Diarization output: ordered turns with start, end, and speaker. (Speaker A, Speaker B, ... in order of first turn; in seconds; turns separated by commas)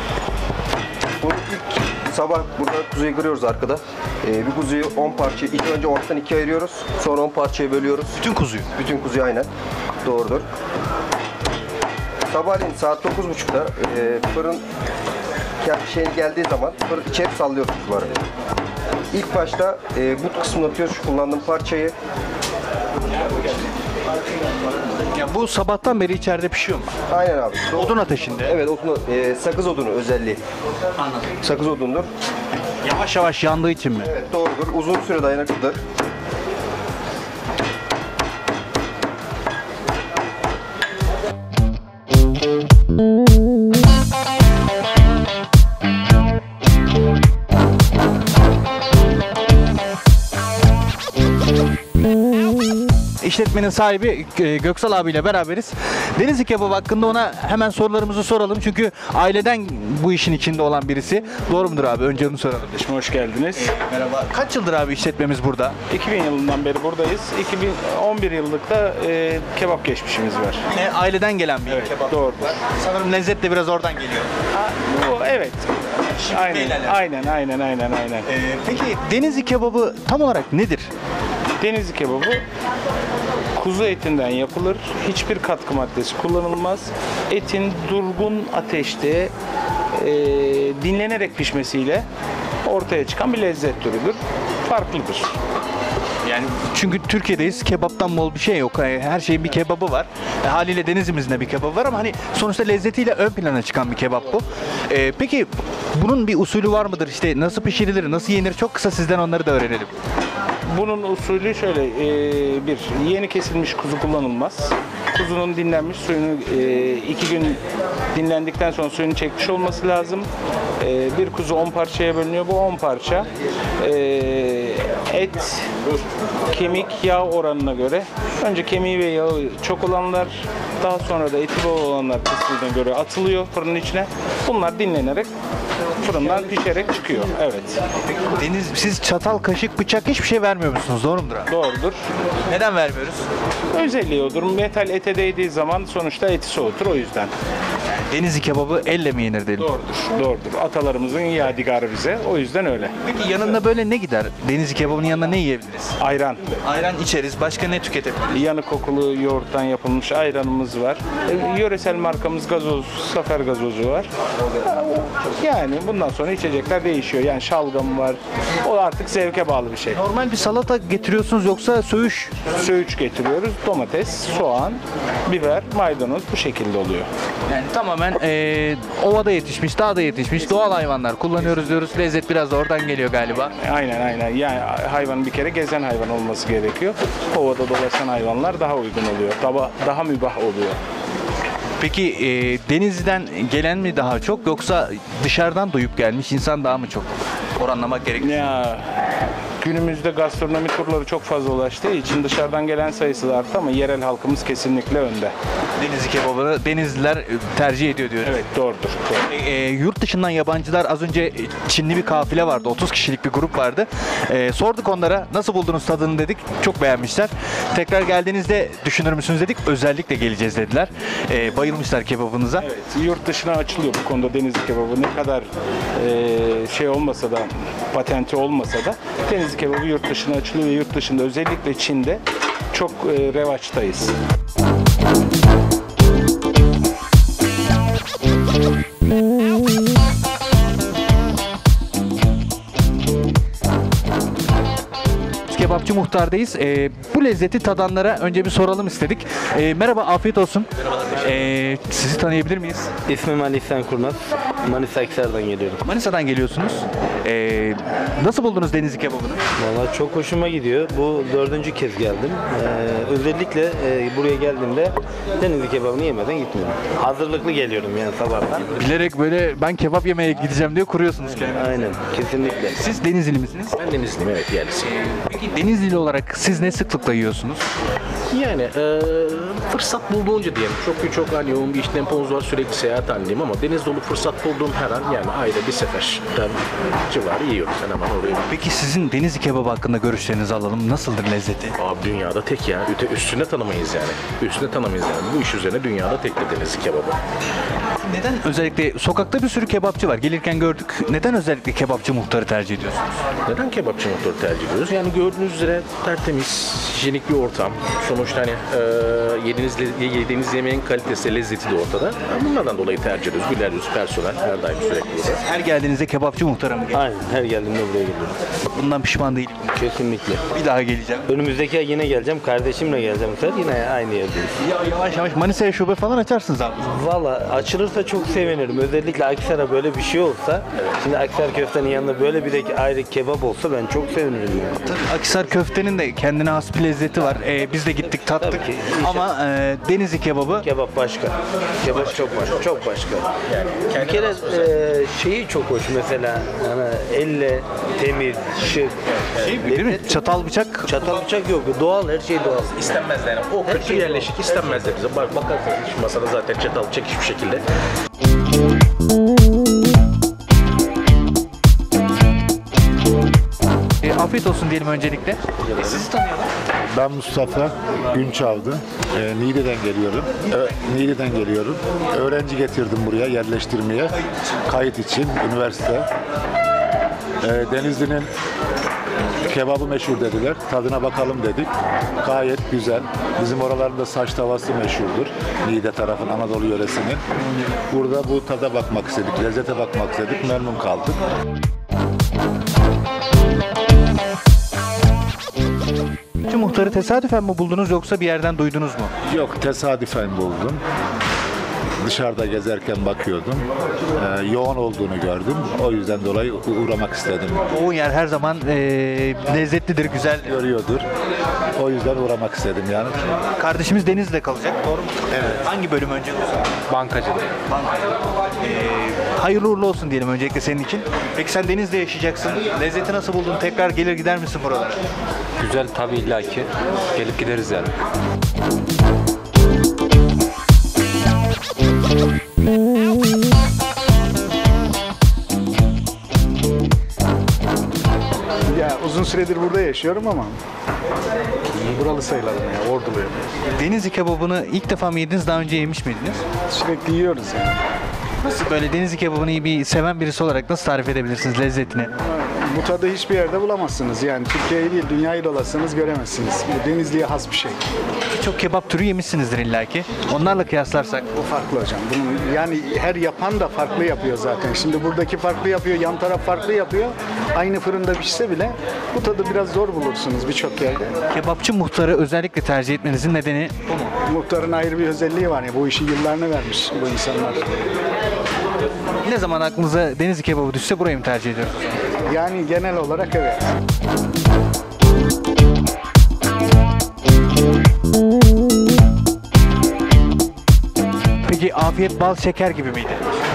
Speaker A: 1.2-8.2, Speaker B: 8.2-8.7, Speaker A: 8.8-9.5, Speaker A: 10.1-10.4, Speaker A: 12.3-14.6, Speaker A: 15.6-18.1, Speaker A: 19.1-21.9, Speaker B: 25.1-26.9, Speaker A: 27.1-30.4, Speaker B: 27.8-28.6, Speaker B: 31.0-31.3, Speaker A: 31.4-32.1, Speaker B: 32.7-34.1, Speaker A: 34.0-35.8, Speaker B: 53.2-62.7, Speaker C: 62.7-63.7, Speaker B: 63.6-65.8, Speaker C: 65.9-70.6, Speaker B: 70.7-74.3, Speaker C: 71.7-72.6, Speaker C: 74.6-75.7, Speaker C: 76.2-78.3, Speaker B: 76.2-77.0, Speaker B: 78.2-80.9, Speaker C: 81.6-82.4, Speaker C: 83.6-89.3, Speaker C: 90.0-92.0, Speaker C: 92.7-95.3, Speaker B: 96.2-109.9, Speaker C: 110.7-117.6, Speaker C: 118.1-120.3, Speaker C: 120.8-123.3, Speaker C: 123.8-125.7, Speaker C: 126.5-135.3, Speaker C: 136.0-137.8, Speaker B: 138.3-141.5, Speaker C: 141.5-142.0, Speaker B: 142.5-143.3, Speaker C: 143.7-147.3, Speaker B: 148.1-149.7, Speaker C: 149.6-152.9, Speaker B: 153.0-156.0, Speaker C: 156.0-156.4, Speaker B: 156.6-158.4, Speaker C: 158.3-170.0, Speaker B: 169.9-172.4, Speaker C: 172.5-177.1, Speaker B: 177.5-183.5, Speaker C: 183.6-190.8, Speaker B: 191.8-198.4, Speaker C: 198.2-198.8, Speaker C: 199.6-205.3, Speaker B: 205.8-208.4, Speaker C: 208.2-209.3, Speaker B: 209.3-222.7, Speaker C: 222.6-232.2, Speaker C: 232.7-234.1, Speaker B: 245.5-252.9, Speaker D: 253.1-255.9, Speaker B: 255.8-259.4, Speaker D: 259.6-268.8, Speaker B: 268.8-271.8, Speaker D: 271.5-272.8, Speaker B: 272.8-273.8, Speaker E: 273.8-274.9, Speaker B: 275.1-277.6, Speaker E: 278.3-288.5, Speaker B: 288.5-291.8, Speaker E: 291.8-297.2, Speaker B: 298.0-303.0, Speaker E: 303.5-315.4, Speaker B: 315.4-317.0, Speaker D: 316.9-318.4, Speaker B: 318.7-319.7, Speaker D: 319.7-320.4, Speaker B: 320.5-321.3, Speaker D: 321.3-324.5, Speaker B: 324.6-326.8, Speaker D: 326.8-334.9, Speaker B: 334.9-340.6, Speaker D: 338.1-339.3, Speaker D: 340.6-349.0, Speaker E: 343.5-344.6, Speaker B: 349.4-350.9, Speaker D: 349.6-350.3, Speaker D: 350.9-352.9, Speaker E: 352.8-357.6, Speaker B: 364.0-366.5, Speaker F: 366.9-376.1, Speaker F: 377.4-378.3, Speaker F: 379.4-381.7, Speaker F: 382.2-387.2, Speaker F: 387.9-391.2, Speaker B: 396.5-399.1, Speaker F: 399.3-400.8, Speaker F: 402.0-407.6, Speaker B: 407.7-410.5, Speaker F: 410.4-411.1, Speaker F: 411.8-413.4, Speaker B: 413.6-416.7, Speaker F: 415.3-415.6, Speaker G: 416.9-417.4, Speaker B: 417.7-425.0, Speaker G: 425.6-426.6, Speaker G: 427.2-427.9, Speaker H: 438.7-440.6, Speaker H: 441.8-443.3, Speaker B: 443.8-446.4, Speaker H: 446.7-447.8, Speaker B: 448.4-452.1, Speaker H: 452.3-457.8, Speaker B: 458.3-461.3, Speaker H: 461.4-471.1, Speaker B: 471.3-474.1, Speaker H: 474.3-477.8, Speaker B: 479.2-481.9, Speaker H: 482.3-483.6, Speaker B: 491.4-493.2